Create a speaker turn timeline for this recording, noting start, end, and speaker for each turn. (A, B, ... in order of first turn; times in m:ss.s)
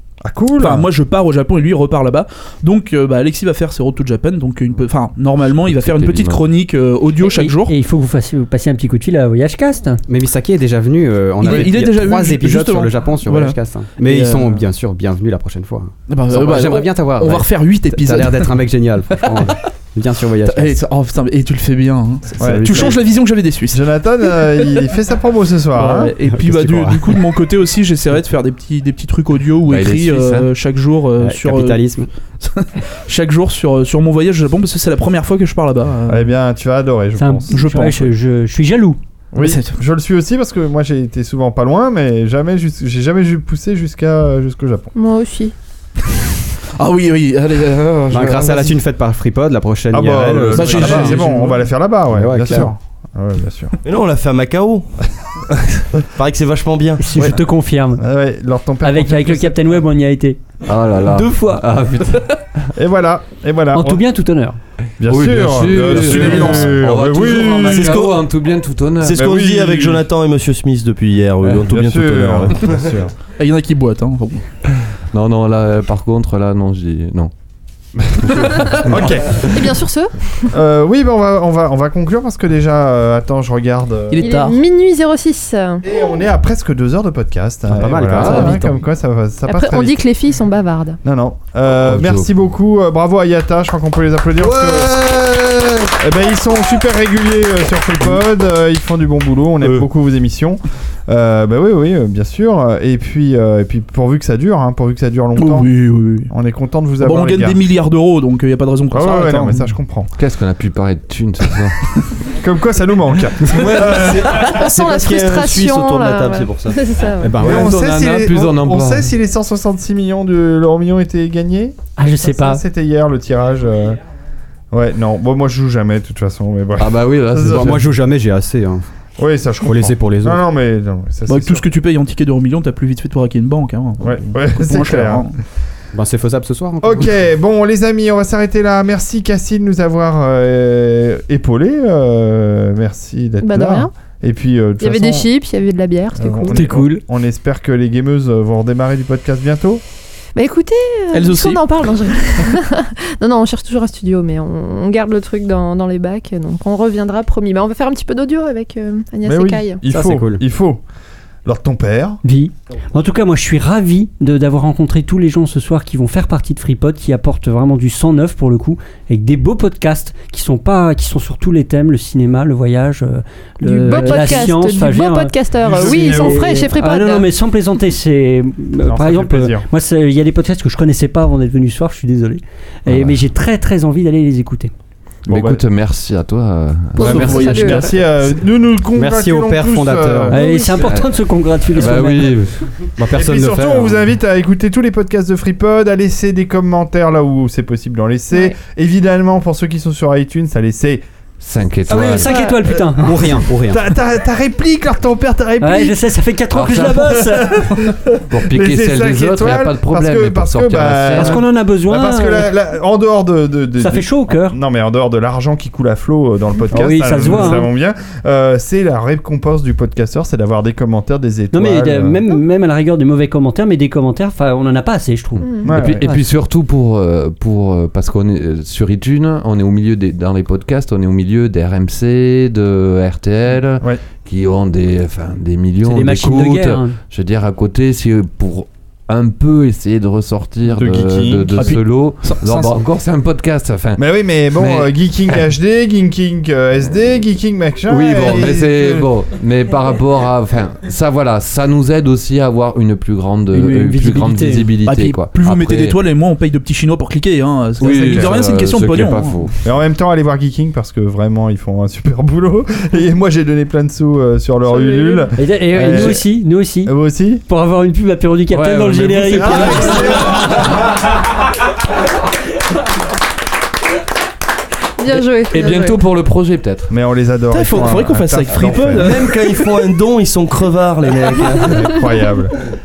0:00.2-0:00.9 A
0:00.6-0:07.7 B
0:05.4-0:06.5 C
0:07.2-0:10.0 D
0:10.1-0:20.8 E
0:11.4-0:14.6 B
0:16.1-0:19.6 B
0:20.4-0:24.8 B
0:22.4-0:23.0 A
0:22.4-0:22.9 E
0:23.7-0:26.1 A
0:25.7-0:36.3 B
0:26.2-0:27.2 E
0:29.6-0:30.5 C
0:31.2-0:32.1 E
0:36.1-0:38.0 A
0:37.2-0:39.0 D
0:37.5-0:38.0 B
0:39.3-0:44.9 A
0:39.4-0:39.8 B
0:44.9-0:45.5 F
0:46.8-0:48.8 B
0:48.1-0:51.2 E
0:49.9-0:53.8 A
0:50.5-0:51.7 B
0:52.1-0:52.7 E
0:53.8-0:54.9 G
0:56.1-0:57.0 G
0:57.0-0:58.0 D
0:57.1-0:57.4 A
0:58.0-0:59.6 A
0:58.8-1:00.4 D
1:00.6-1:02.1 C
1:01.1-1:02.0 D
1:02.7-1:04.0 A
1:03.7-1:04.6 D
1:05.0-1:08.1 A
1:05.0-1:09.2 C
1:07.7-1:08.2 G
1:09.0-1:12.9 G
1:09.1-1:10.0 A
1:11.4-1:13.1 A
1:13.4-1:14.4 B
1:15.1-1:17.3 C
1:18.2-1:19.5 C
1:18.8-1:19.5 A
1:19.4-1:20.1 F
1:20.5-1:24.2 A
1:24.1-1:24.6 B
1:24.2-1:25.8 F
1:25.8-1:30.0 A
1:27.7-1:28.7 E
1:28.0-1:28.7 C
1:29.4-1:31.0 F
1:31.0-1:35.1 A
1:31.8-1:32.3 C
1:36.0-1:45.7 A
1:45.4-1:46.3 B
1:46.3-1:47.6 A
1:47.0-1:49.6 B
1:48.9-1:50.1 A
1:50.1-1:51.9 C
1:52.3-1:54.5 A
1:53.8-1:56.9 G
1:54.4-1:57.5 F
1:57.2-1:57.6 E
1:57.3-1:59.1 C
1:57.4-2:04.0 A
2:02.0-2:02.6 D
2:04.7-2:07.8 A
2:06.8-2:07.9 C
2:07.5-2:08.8 E
2:09.2-2:11.6 A
2:09.6-2:10.4 E
2:11.3-2:15.3 B
2:14.0-2:15.3 A
2:15.9-2:17.1 E
2:16.8-2:25.3 A
2:23.4-2:23.9 F
2:24.8-2:26.7 F
2:26.1-2:29.8 A
2:26.5-2:27.0 D
2:30.4-2:39.8 F
2:31.1-2:31.6 B
2:39.2-2:40.8 A
2:39.9-2:40.4 E
2:41.4-2:42.2 A
2:42.2-3:04.7 D
2:53.6-2:57.3 F
2:55.6-2:56.5 A
2:58.8-2:59.7 A
3:02.9-3:03.2 C
3:05.3-3:05.6 A
3:05.3-3:07.8 C
3:06.9-3:07.9 F
3:07.0-3:07.9 B
3:07.0-3:10.4 A
3:08.9-3:10.4 E
3:10.3-3:12.4 D
3:10.3-3:10.9 F
3:10.8-3:11.1 C
3:11.7-3:12.5 C
3:13.0-3:14.0 E
3:13.1-3:21.0 A
3:21.4-3:22.4 C
3:21.9-3:23.4 D
3:23.0-3:23.8 E
3:23.6-3:26.0 A
3:25.6-3:27.9 D
3:26.5-3:27.2 C
3:27.5-3:42.2 A
3:28.3-3:31.4 C
3:31.1-3:32.5 D
3:33.8-3:34.6 D
3:36.7-3:37.7 D
3:41.5-3:46.2 D
3:45.4-3:45.7 F
3:45.6-3:46.1 A
3:45.7-4:05.4 C
3:55.8-3:57.0 D
4:00.6-4:01.8 A
4:01.6-4:02.8 B
4:04.0-4:09.0 A
4:07.9-4:16.0 C
4:13.5-4:14.7 D
4:14.8-4:19.4 B
4:17.8-4:19.5 C
4:17.9-4:18.3 A
4:19.6-4:26.2 A
4:24.6-4:25.3 F
4:25.4-4:26.9 D
4:25.8-4:26.1 C
4:26.8-4:27.4 A
4:27.5-4:30.4 D
4:28.5-4:30.5 C
4:29.3-4:30.6 A
4:35.0-4:36.0 F
4:35.1-4:36.9 C
4:36.9-4:39.2 A
4:37.5-4:39.3 B
4:38.9-4:41.9 G
4:41.7-4:42.5 A